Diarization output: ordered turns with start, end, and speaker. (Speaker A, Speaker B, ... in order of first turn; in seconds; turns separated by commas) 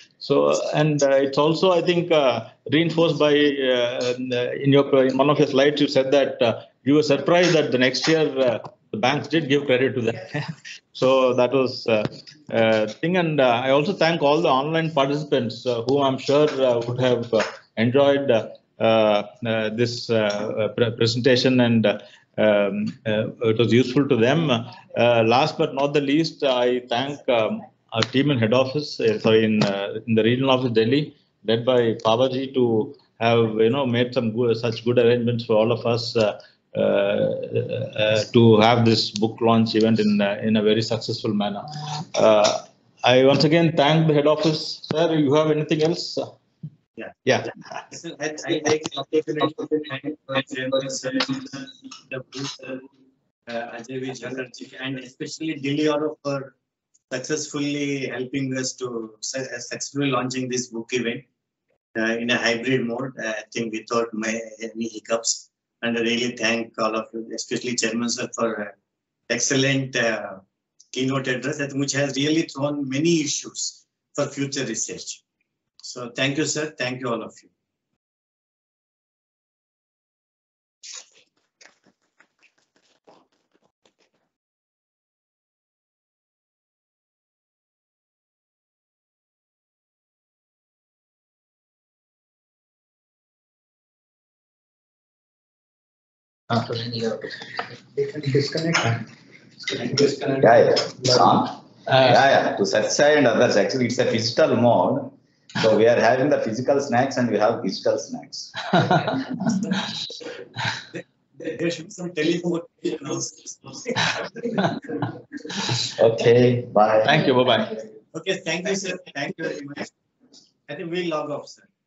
Speaker A: 0.2-46.3, Speaker A: 47.2-47.5, Speaker B: 47.9-52.9, Speaker B: 53.5-56.5, Speaker B: 57.1-61.2, Speaker B: 61.9-68.7, Speaker B: 69.3-75.2, Speaker B: 75.8-77.5, Speaker A: 96.5-97.3, Speaker C: 98.0-99.0, Speaker C: 99.6-101.0, Speaker D: 100.4-109.0, Speaker B: 110.9-115.1, Speaker D: 115.8-117.1, Speaker A: 117.0-117.8, Speaker B: 118.1-119.9, Speaker B: 120.7-121.7